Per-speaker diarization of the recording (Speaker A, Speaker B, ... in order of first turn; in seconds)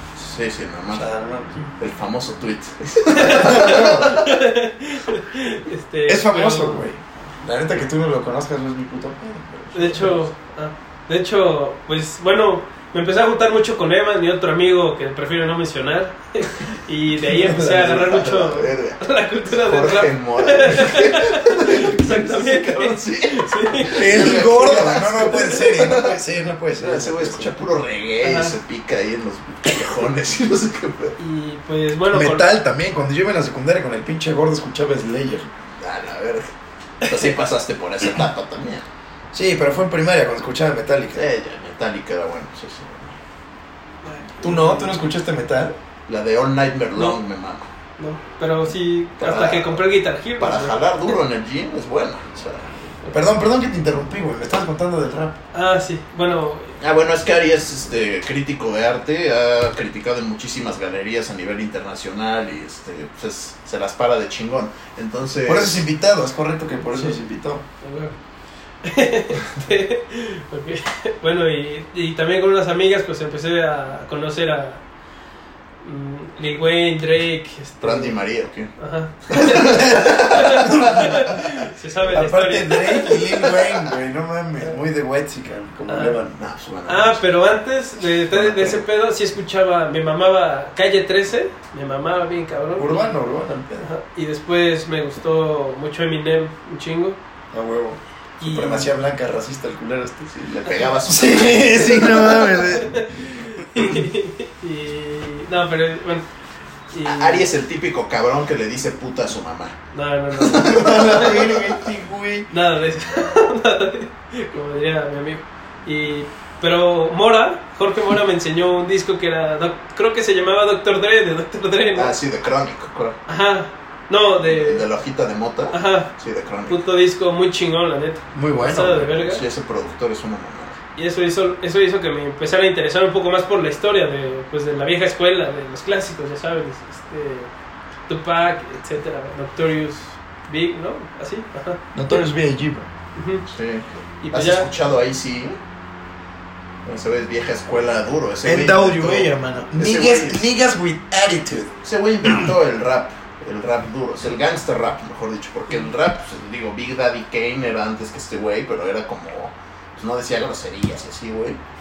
Speaker A: 0.1-1.1, 1.8-4.3, 9.8-10.2, 17.2-26.2, 26.8-31.2, 35.8-38.9, 41.1-43.2, 46.1-47.7, 49.2-49.8, 50.4-52.8, 56.8-65.8, 77.8-78.7, 79.3-80.8, 86.4-87.2, 100.2-102.0, 107.0-109.8, 110.4-111.5, 121.9-123.2, 124.4-126.8, 129.2-130.8, 143.5-145.6, 146.8-150.5, 151.8-161.6
Speaker B: 0.9-1.5, 3.2-4.2, 6.1-10.1, 23.9-27.6, 32.1-35.5, 39.3-41.2, 44.4-45.8, 53.1-55.4, 65.5-67.6, 79.7-81.2, 82.1-86.4, 88.3-88.8, 92.8-93.9, 97.5-100.3, 101.0-103.0, 110.5-112.5, 128.3-129.2, 141.9-142.9, 148.4-151.7
Speaker C: 3.1-6.8, 9.7-25.5, 28.2-28.6, 31.2-32.5, 37.0-37.3, 44.0-45.1, 48.0-51.2, 55.5-56.8, 66.9-67.2, 67.8-68.1, 68.8-74.8, 75.8-78.2, 78.8-83.3, 85.9-86.2, 86.8-93.2, 93.8-97.2, 98.4-98.9, 101.7-106.2, 106.9-107.5, 109.9-111.6, 112.5-122.2, 123.3-124.9, 125.7-126.1, 126.7-129.4, 130.9-137.5, 138.1-142.2, 143.2-143.4, 144.2-144.7